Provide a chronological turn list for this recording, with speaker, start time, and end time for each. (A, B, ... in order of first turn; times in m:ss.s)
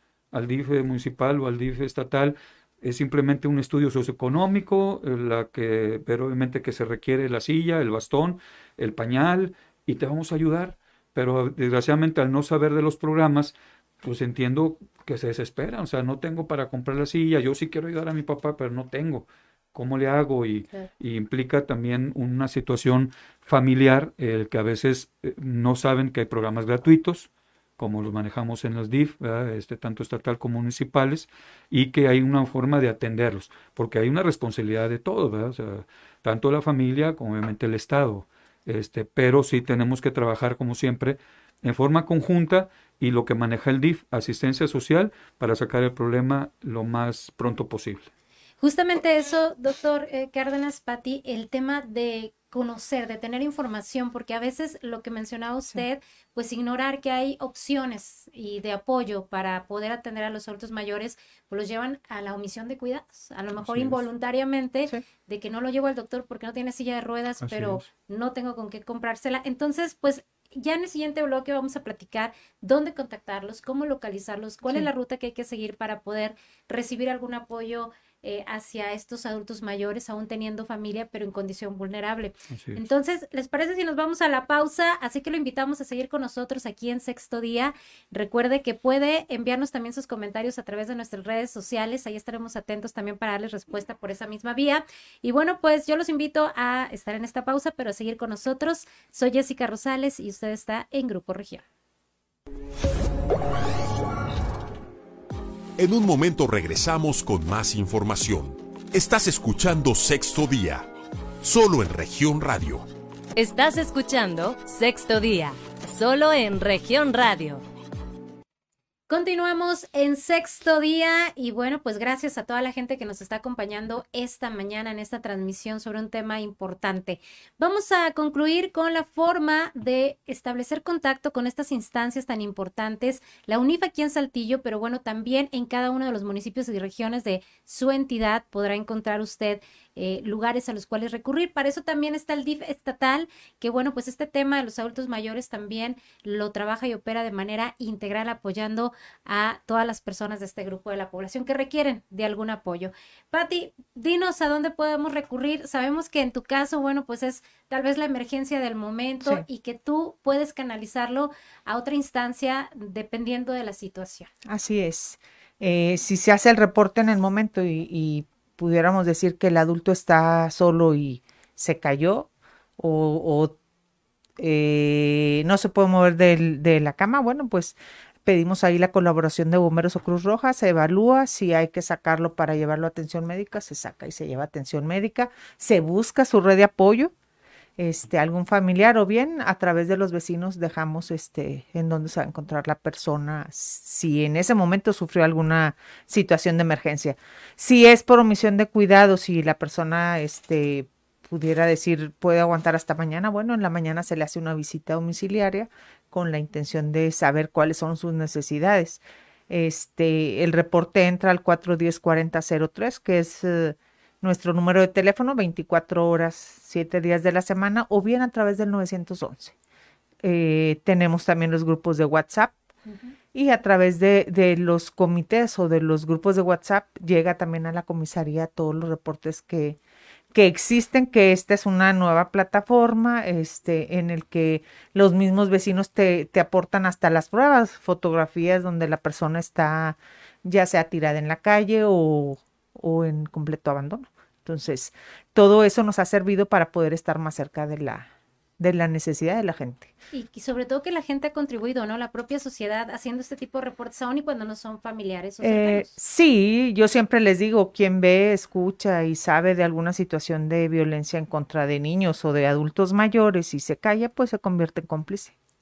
0:00.3-0:48.1 A
0:48.6-1:41.6 B
1:03.6-1:04.0 A
1:07.4-1:07.8 A
1:22.5-1:22.8 A
1:45.8-1:50.9 C
1:51.4-1:52.9 C
1:53.4-1:57.6 D
1:59.1-2:44.3 B
2:44.5-2:53.6 E
2:54.4-3:07.1 E
3:07.8-3:39.5 E
3:40.2-3:42.6 E
3:42.9-3:43.2 B
3:43.3-3:49.8 E
3:50.3-4:09.9 E
4:10.1-4:15.9 B
4:15.4-4:25.4 E